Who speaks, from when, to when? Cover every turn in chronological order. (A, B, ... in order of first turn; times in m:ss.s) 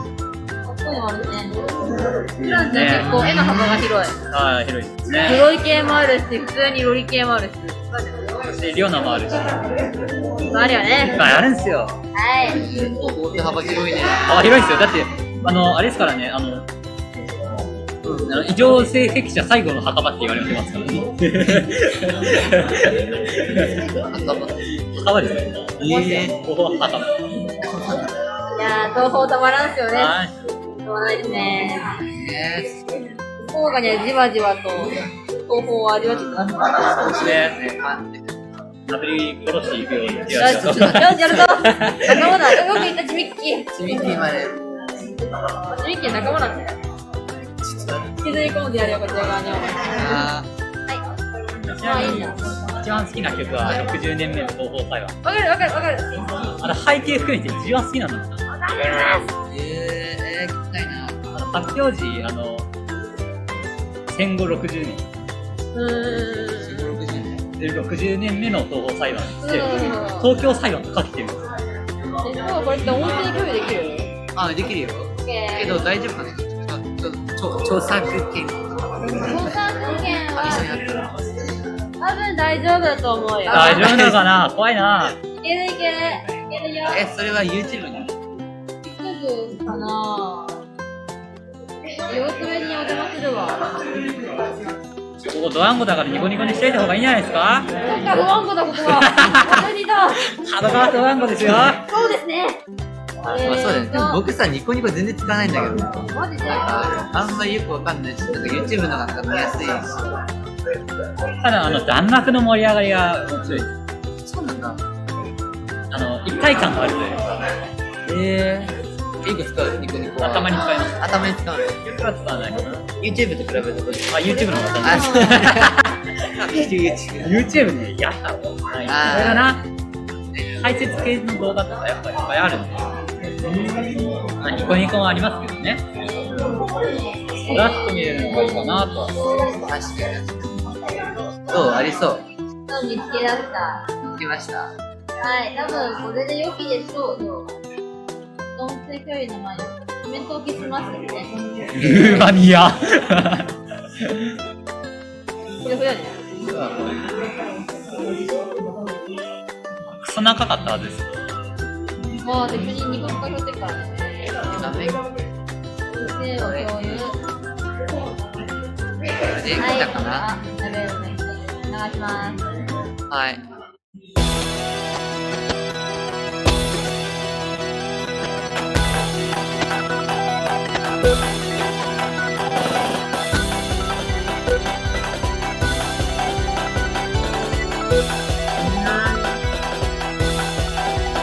0:00.6-0:04.1 A
0:02.4-0:03.3 B
0:02.8-0:03.9 C
0:04.2-0:05.4 B
0:05.2-0:08.4 A
0:08.5-0:09.8 B
0:10.5-0:11.2 A
0:11.1-0:12.0 B
0:12.1-0:12.7 A
0:12.5-0:14.5 C
0:14.2-0:16.7 B
0:18.0-0:18.4 C
0:18.1-0:24.0 B
0:23.9-0:24.7 C
0:24.7-0:27.2 B
0:25.8-0:26.4 C
0:28.5-0:30.1 A
0:29.9-0:30.4 B
0:30.8-0:31.9 A
0:32.1-0:32.8 C
0:33.4-0:36.8 A
0:36.0-0:38.4 C
0:37.1-0:37.6 B
0:38.9-0:42.5 B
0:40.3-0:41.6 C
0:40.4-0:44.2 A
0:43.7-0:44.9 C
0:45.6-0:46.7 A
0:47.6-0:48.2 C
0:48.2-0:50.3 A
0:49.8-0:50.5 C
0:51.7-0:55.1 B
0:51.7-0:52.4 A
0:55.2-0:56.5 A
0:56.6-0:58.4 B
0:58.5-0:59.3 A
0:59.5-1:01.3 C
1:01.3-1:02.7 B
1:04.1-1:05.1 B
1:05.7-1:06.9 A
1:06.6-1:07.4 C
1:07.6-1:11.4 B
1:09.4-1:10.3 A
1:12.2-1:14.1 A
1:14.3-1:19.7 C
1:15.2-1:15.8 A
1:19.1-1:20.7 A
1:20.3-1:21.3 C
1:22.0-1:23.9 A
1:23.4-1:24.2 C
1:23.5-1:25.2 B
1:25.4-1:27.0 A
1:26.9-1:28.1 C
1:28.8-1:30.6 A
1:32.0-1:33.8 A
1:35.2-1:37.7 B
1:37.8-1:40.3 A
1:38.8-1:39.6 B
1:40.3-1:41.8 B
1:41.8-1:42.6 A
1:43.2-1:44.2 A
1:43.3-1:50.1 C
1:46.1-1:47.0 A
1:51.4-1:53.7 B
1:53.4-1:53.7 C
1:54.2-1:54.8 C
1:55.9-1:57.4 B
1:58.1-1:58.7 C
1:59.2-2:01.8 C
2:00.2-2:01.0 B
2:01.9-2:02.9 B
2:03.0-2:05.8 C
2:04.1-2:06.0 B
2:04.7-2:05.5 A
2:06.3-2:07.4 C
2:07.2-2:09.6 B
2:08.8-2:09.6 C
2:10.3-2:10.6 C
2:10.6-2:12.9 B
2:13.4-2:14.2 C
2:14.2-2:15.8 B
2:17.4-2:19.7 A
2:17.4-2:19.2 B
2:19.4-2:20.6 C
2:21.5-2:22.2 C
2:22.7-2:23.9 A
2:24.0-2:24.7 C
2:25.2-2:27.6 A
2:28.5-2:31.3 A
2:31.7-2:34.4 B
2:35.6-2:36.3 A
2:36.5-2:37.0 B
2:39.9-2:41.0 B
2:42.2-2:44.8 A
2:44.4-2:45.0 C
2:45.9-2:47.2 A
2:46.4-2:47.1 C
2:49.1-2:50.3 C
2:49.5-2:52.5 A
2:53.1-2:53.4 C
3:08.6-3:09.4 C